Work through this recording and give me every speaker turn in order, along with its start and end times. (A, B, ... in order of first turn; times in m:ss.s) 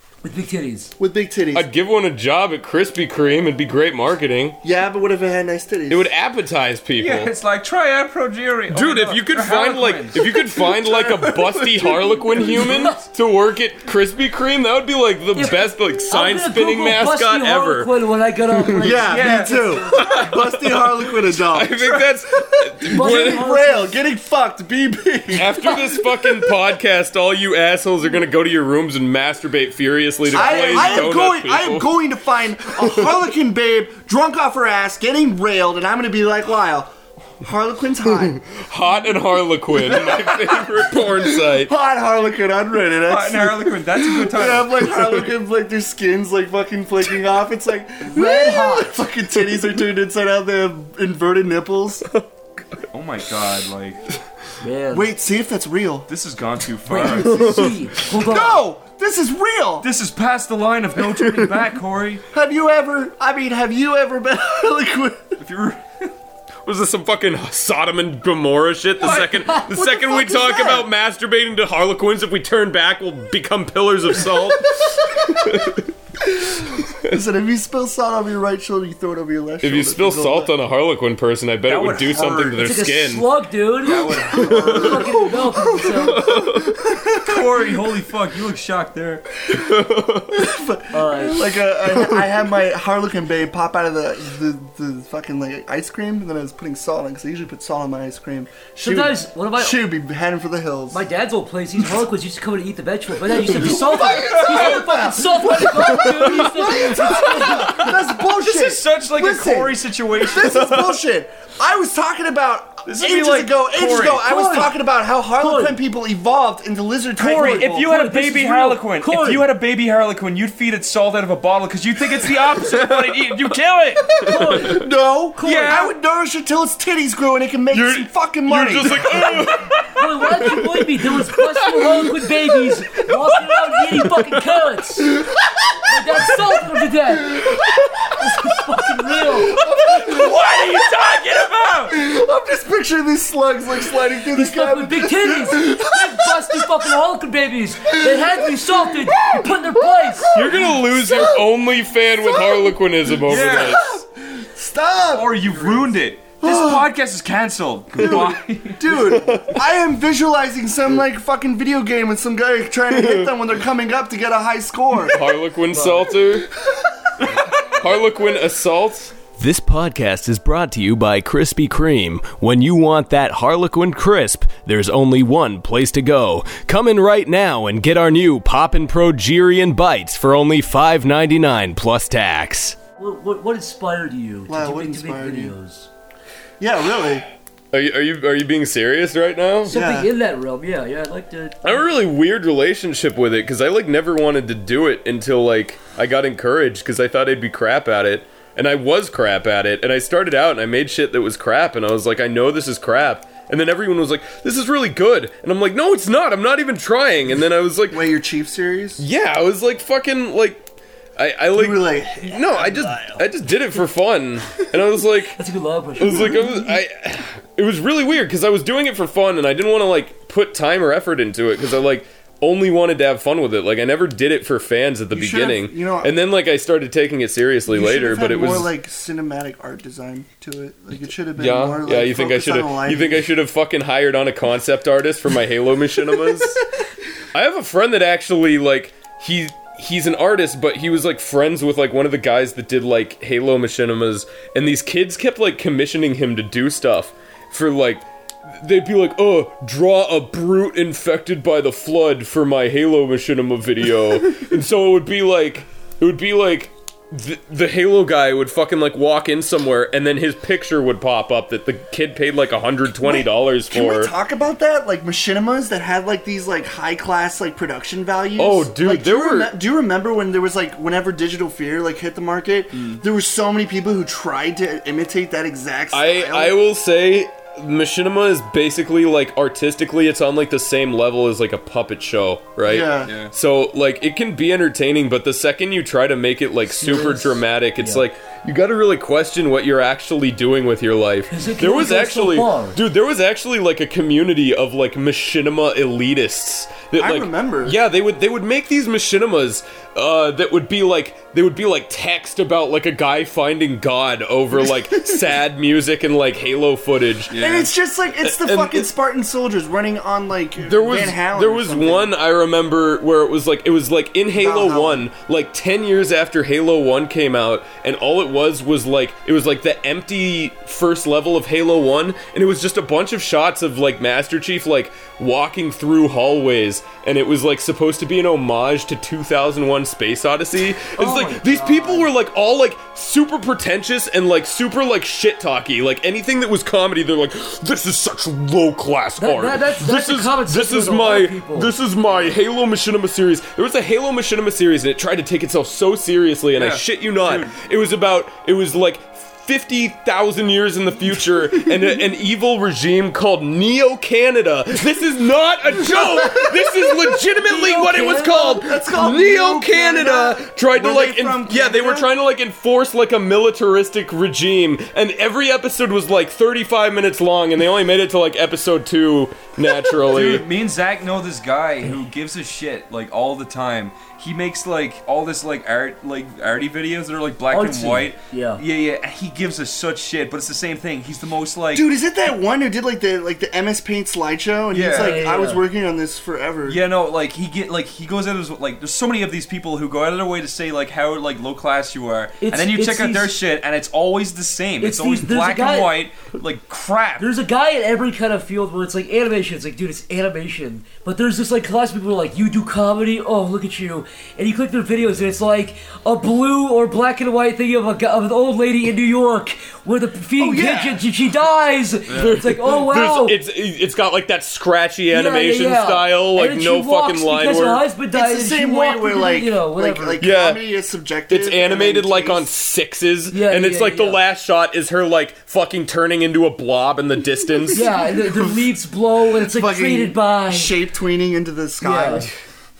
0:00.2-0:00.9 A
0:01.0-0:01.7 B
0:01.5-0:04.6 C
0:04.6-0:06.1 B
0:05.9-0:07.3 C
0:07.0-0:12.8 D
0:08.7-0:17.9 C
0:15.3-0:20.0 A
0:18.8-0:22.0 B
0:19.0-0:19.8 D
0:20.0-0:23.4 C
0:21.8-0:22.1 D
0:22.6-0:26.5 B
0:22.9-0:24.0 A
0:25.3-0:31.9 C
0:30.3-0:38.4 B
0:32.8-0:33.1 C
0:38.2-0:41.7 C
0:39.8-0:52.1 B
0:43.1-0:45.0 D
0:48.0-0:49.0 A
0:52.9-0:54.0 D
0:54.6-0:55.1 A
0:54.9-0:56.1 B
0:56.1-0:57.6 D
0:56.9-0:58.6 A
0:57.3-0:57.7 C
0:58.1-0:59.9 B
0:59.8-1:02.2 D
1:02.3-1:05.4 B
1:05.4-1:06.1 D
1:06.6-1:15.8 C
1:09.0-1:09.3 D
1:09.0-1:10.9 B
1:14.7-1:15.7 B
1:16.2-1:20.5 B
1:19.6-1:23.2 C
1:21.7-1:22.7 D
1:22.6-1:26.2 A
1:23.8-1:25.2 D
1:24.4-1:24.9 C
1:24.4-1:27.7 B
1:26.1-1:26.7 C
1:27.2-1:29.2 D
1:29.5-1:30.4 C
1:30.3-1:41.0 B
1:30.9-1:31.4 A
1:31.9-1:32.2 C
1:38.8-1:39.8 A
1:40.9-1:47.9 A
1:43.2-1:57.9 B
1:44.2-1:44.8 D
1:46.6-1:48.0 C
1:48.4-1:50.7 D
1:52.8-1:54.6 D
1:54.3-1:54.7 A
1:55.4-1:55.8 A
1:57.2-2:04.3 D
1:57.4-1:59.5 A
2:02.6-2:03.5 C
2:04.2-2:04.8 A
2:04.4-2:09.5 B
2:05.4-2:05.9 A
2:05.4-2:05.9 D
2:07.7-2:14.4 C
2:09.1-2:15.2 A
2:15.8-2:17.5 A
2:17.2-2:18.3 B
2:18.2-2:19.6 A
2:19.2-2:20.8 B
2:19.8-2:22.0 D
2:21.9-2:26.9 B
2:24.3-2:30.3 A
2:27.8-2:36.9 B
2:30.3-2:34.0 C
2:33.2-2:33.9 D
2:35.1-2:38.8 D
2:38.0-2:45.3 B
2:38.9-2:39.6 C
2:42.9-2:43.3 C
2:45.0-2:46.5 C
2:45.7-2:46.1 A
2:47.6-2:49.1 C
2:49.4-3:02.8 E
3:03.0-3:05.9 A
3:04.5-3:05.5 B
3:06.6-3:07.2 B
3:07.7-3:09.7 C
3:09.7-3:11.9 A
3:09.7-3:10.1 B
3:11.6-3:28.1 C
3:27.9-3:29.0 B
3:29.0-3:35.4 C
3:31.5-3:33.2 B
3:35.4-3:36.8 A
3:36.0-3:48.7 C
3:36.0-3:36.4 B
3:45.1-3:46.1 B
3:47.7-3:53.3 B
3:51.4-3:56.6 C
3:57.3-4:08.0 C
4:08.6-4:24.1 C
4:23.0-4:36.6 B
4:28.4-4:29.5 C
4:32.7-4:33.0 D
4:35.9-5:07.3 C
4:42.6-4:43.1 B
4:43.0-4:43.3 D
4:46.8-4:48.0 A
4:51.3-4:52.8 A
4:57.0-4:57.8 B
5:04.5-5:05.2 B
5:07.3-5:07.7 D
5:07.3-5:12.1 B
5:08.2-5:08.9 C
5:10.6-6:10.4 C
5:14.3-5:15.1 B
5:31.0-5:32.1 A
5:39.2-5:42.4 A
5:46.5-5:47.6 D
5:55.9-5:56.6 B
5:57.4-5:58.6 A
5:58.3-6:02.1 B
6:10.0-6:21.9 D
6:17.5-6:18.6 A
6:21.7-6:26.8 B
6:24.7-6:25.2 D
6:24.9-6:25.6 A
6:26.6-6:37.3 D
6:32.4-6:33.4 A
6:34.8-6:36.0 A
6:37.2-6:53.4 A
6:50.4-6:51.0 B
6:52.1-6:52.4 D
6:52.2-6:57.8 C
6:55.1-7:00.2 A
6:58.1-7:02.5 B
7:00.2-7:00.6 C
7:01.3-7:07.9 C
7:03.3-7:04.2 A
7:07.7-7:10.7 A
7:08.1-7:08.6 B
7:09.4-7:12.3 B
7:11.8-7:12.3 A